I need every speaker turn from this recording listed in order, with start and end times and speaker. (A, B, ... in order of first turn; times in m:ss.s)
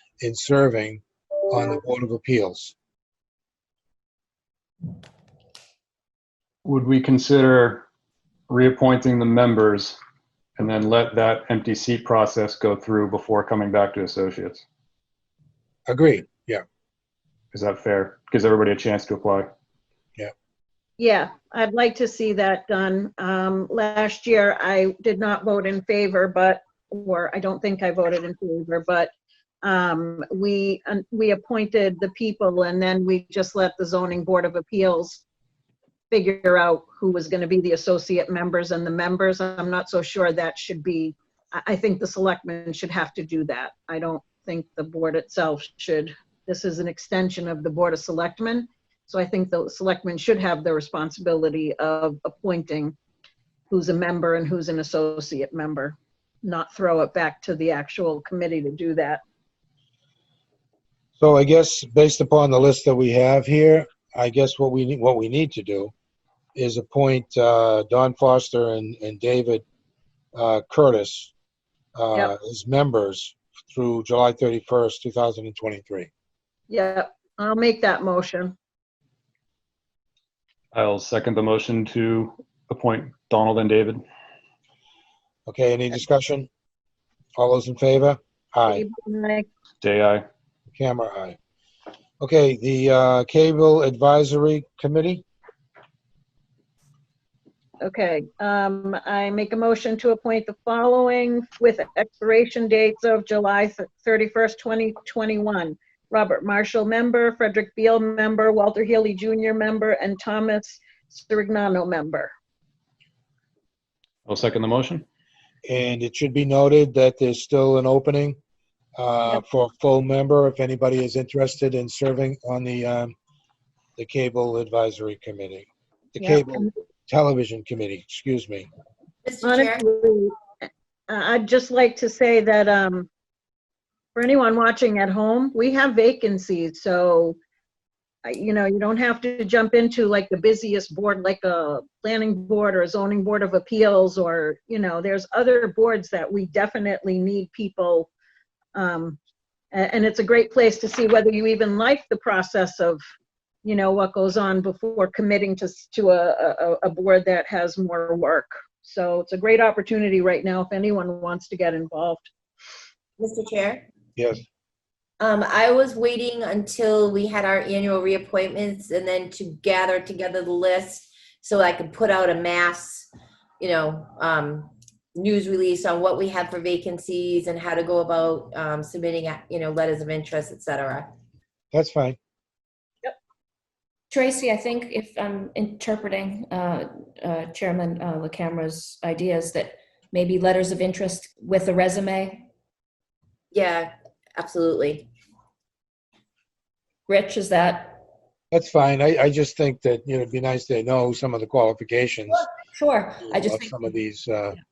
0:00.2-0:02.8 A
0:06.6-0:07.8 B
0:08.5-0:10.0 B
0:10.6-0:14.6 B
0:15.9-0:16.6 A
0:17.5-0:19.5 B
0:21.0-0:29.1 C
0:29.6-0:35.2 C
0:36.1-0:53.0 C
0:53.7-0:59.2 C
1:01.2-1:05.9 A
1:06.6-1:09.6 A
1:10.3-1:11.3 A
1:12.0-1:16.1 A
1:16.7-1:18.5 C
1:20.7-1:24.0 B
1:25.5-1:26.5 A
1:27.4-1:28.8 A
1:28.7-1:29.5 C
1:29.8-1:30.2 B
1:30.7-1:31.4 A
1:32.2-1:35.2 A
1:37.8-1:52.3 C
1:54.3-1:55.0 B
1:55.7-1:58.4 A
1:59.0-2:03.2 A
2:04.0-2:08.7 A
2:06.2-2:06.7 C
2:09.2-2:09.8 D
2:09.4-2:10.3 C
2:11.1-2:13.1 C
2:14.2-2:17.4 C
2:18.2-2:28.1 C
2:28.8-2:29.2 C
2:29.7-2:33.0 C
2:33.6-2:42.3 C
2:43.2-2:43.8 D
2:44.2-2:44.4 A
2:45.2-2:53.1 D
2:53.6-3:01.1 D
3:01.7-3:02.2 A
3:04.1-3:12.5 E
3:13.5-3:15.1 D
3:17.1-3:18.0 E
3:18.5-3:22.5 A
3:22.3-3:23.8 E
3:23.3-3:24.6 A